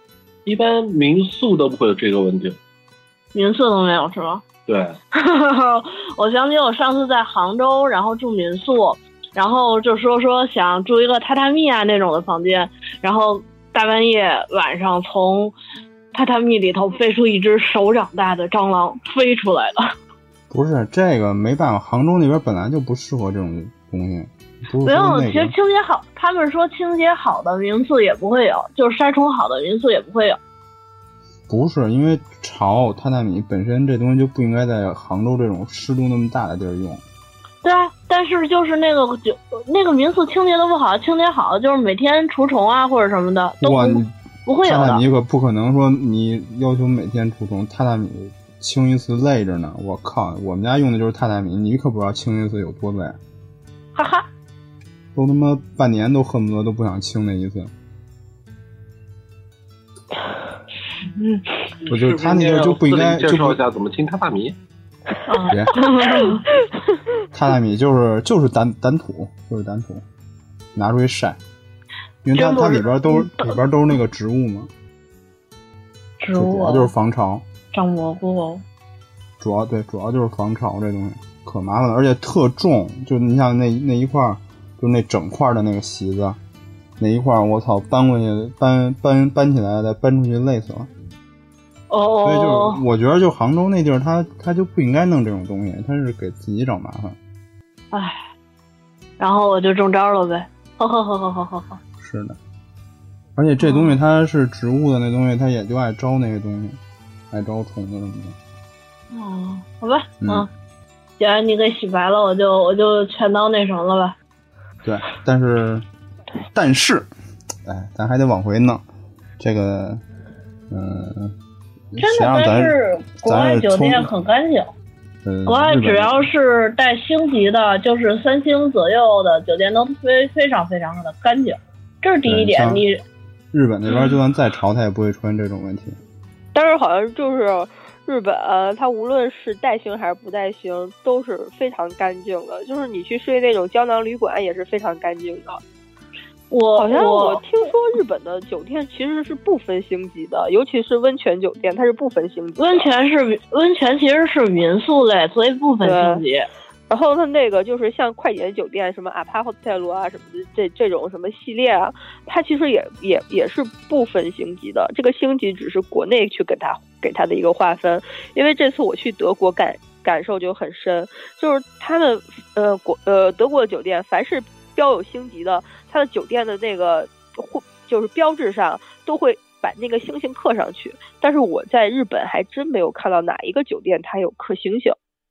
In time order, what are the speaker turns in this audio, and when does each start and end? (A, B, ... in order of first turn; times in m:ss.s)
0:00.4-0:02.6 A
0:03.3-0:04.4 B
0:04.7-0:04.9 A
0:05.1-0:15.5 B
0:16.1-0:19.9 B
0:20.5-0:25.5 C
0:24.8-0:30.4 B
0:31.5-0:37.0 C
0:37.6-0:45.0 B
0:43.6-0:44.1 C
0:44.6-0:53.2 C
0:54.0-0:54.3 B
0:55.1-0:57.7 C
1:01.2-1:01.4 B
1:01.8-1:04.6 A
1:01.9-1:03.6 C
1:05.3-1:06.4 B
1:05.5-1:05.8 C
1:07.3-1:10.0 C
1:10.7-1:11.4 C
1:12.2-1:14.7 C
1:12.4-1:13.5 B
1:16.2-1:16.9 B
1:16.3-1:17.4 C
1:17.7-1:18.6 B
1:19.4-1:26.4 C
1:27.0-1:30.9 C
1:31.9-1:32.8 B
1:32.2-1:37.2 C
1:37.9-1:38.2 B
1:39.2-1:41.8 B
1:42.0-1:42.4 C
1:43.4-1:46.8 C
1:43.6-1:44.0 B
1:47.3-1:48.4 C
1:49.1-1:50.5 B
1:50.2-1:50.5 C
1:51.2-1:54.2 B
1:54.8-1:55.8 C
1:56.5-1:57.1 C
1:57.6-1:58.8 C
1:59.4-2:00.0 C
2:00.7-2:01.3 C
2:01.9-2:04.1 C
2:02.0-2:04.7 B
2:05.2-2:06.2 C
2:05.4-2:13.0 B
2:12.2-2:12.8 C
2:13.5-2:16.0 C
2:16.5-2:25.6 D
2:26.5-2:27.4 B
2:26.8-2:32.9 D
2:32.6-2:36.5 B
2:35.8-2:36.2 D
2:36.9-3:05.0 D